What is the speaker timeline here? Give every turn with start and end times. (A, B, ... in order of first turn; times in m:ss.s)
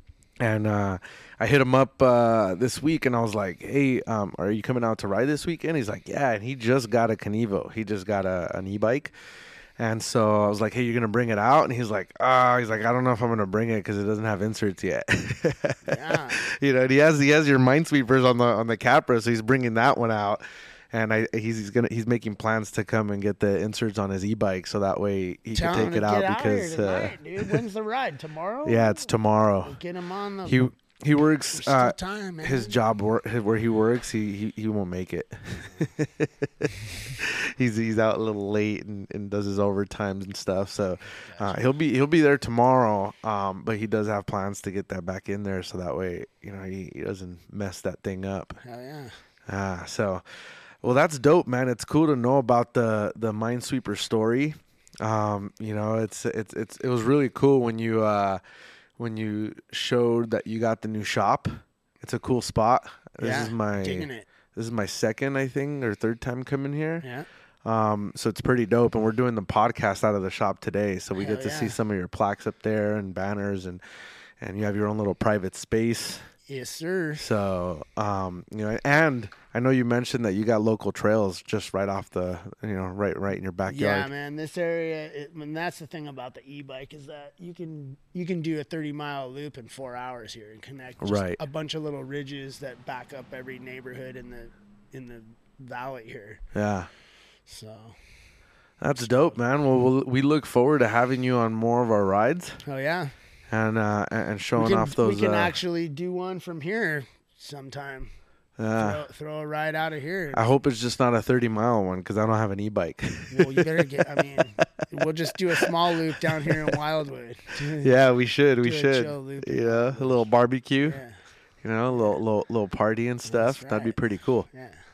0:00.4-0:09.1 A
0:09.8-0:27.6 A
0:15.8-0:16.4 B
0:25.5-0:30.6 B
0:28.6-0:29.8 A
0:30.4-0:48.6 A
0:31.5-0:32.8 B
0:41.1-0:41.6 B
0:48.6-0:49.2 B
0:49.4-0:50.2 A
0:50.8-0:58.4 A
0:59.0-1:07.0 A
1:03.2-1:04.3 B
1:07.0-1:07.3 B
1:07.6-1:13.8 A
1:11.2-1:11.8 B
1:14.4-1:16.3 A
1:16.5-1:17.2 B
1:17.2-1:24.1 A
1:23.7-1:36.4 B
1:31.0-1:31.4 A
1:36.5-1:36.9 A
1:37.5-1:38.0 B
1:38.8-1:42.6 A
1:39.0-1:39.4 B
1:42.6-1:43.1 B
1:43.5-1:45.6 A
1:44.5-1:48.1 B
1:48.6-1:49.0 A
1:48.8-1:50.5 B
1:50.3-1:54.8 A
1:53.3-1:57.9 B
1:55.5-1:56.7 A
1:57.8-2:01.0 A
1:58.6-2:00.2 B
2:00.8-2:01.2 B
2:01.6-2:04.5 A
2:01.9-2:02.2 B
2:03.2-2:04.8 B